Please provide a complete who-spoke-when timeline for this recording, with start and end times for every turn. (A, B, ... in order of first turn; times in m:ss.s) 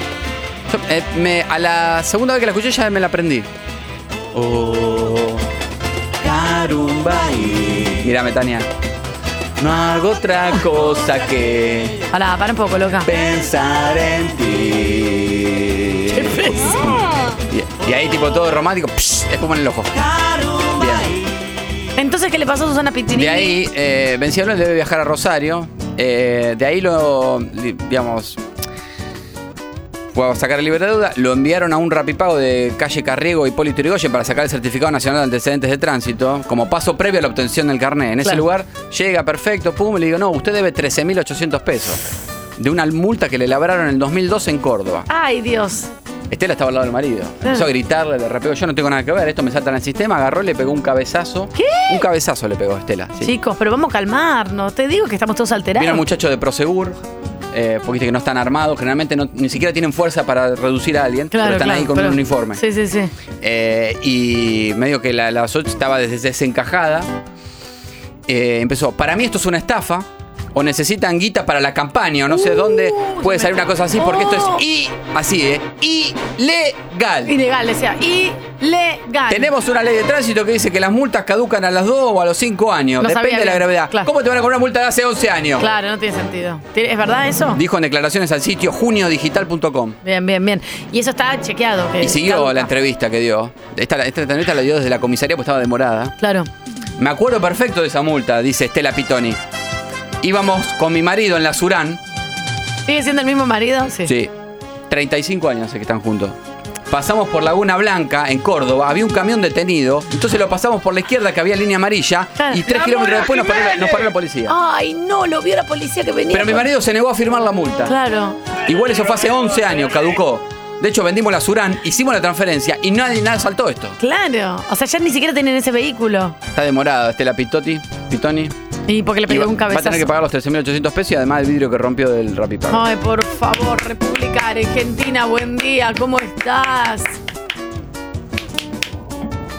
0:00.7-0:03.5 A
0:04.3-0:05.4 A
0:06.2-0:08.7 A
0:09.6-0:12.0 A
0:12.1-0:13.1 B
0:13.1-0:17.0 A
0:16.1-0:16.8 B
0:17.5-0:21.1 A
0:22.0-0:23.6 B
0:23.1-0:28.4 A
0:30.1-0:42.0 A
0:42.6-0:45.1 A
0:45.1-0:45.9 B
0:46.3-0:53.3 A
0:51.6-0:52.1 B
0:53.2-0:56.0 B
0:55.8-0:57.0 A
0:57.5-1:02.6 A
1:01.3-1:03.1 B
1:03.4-1:07.1 A
1:08.3-1:17.3 A
1:12.3-1:14.6 B
1:17.2-1:19.5 B
1:19.3-1:25.6 A
1:23.0-1:24.1 B
1:25.6-1:27.6 B
1:27.5-1:30.0 A
1:30.0-1:32.7 B
1:32.0-1:36.1 A
1:36.2-1:36.5 B
1:37.0-1:39.4 A
1:40.2-1:42.0 A
1:42.9-1:44.1 B
1:44.9-1:46.4 A
1:46.9-1:54.5 A
1:52.4-1:56.7 B
1:56.3-1:57.9 A
1:57.9-1:58.4 B
1:58.6-2:04.0 A
2:04.0-2:06.4 B
2:06.5-2:08.5 A
2:08.9-2:10.1 B
2:09.3-2:12.8 A
2:12.7-2:17.1 B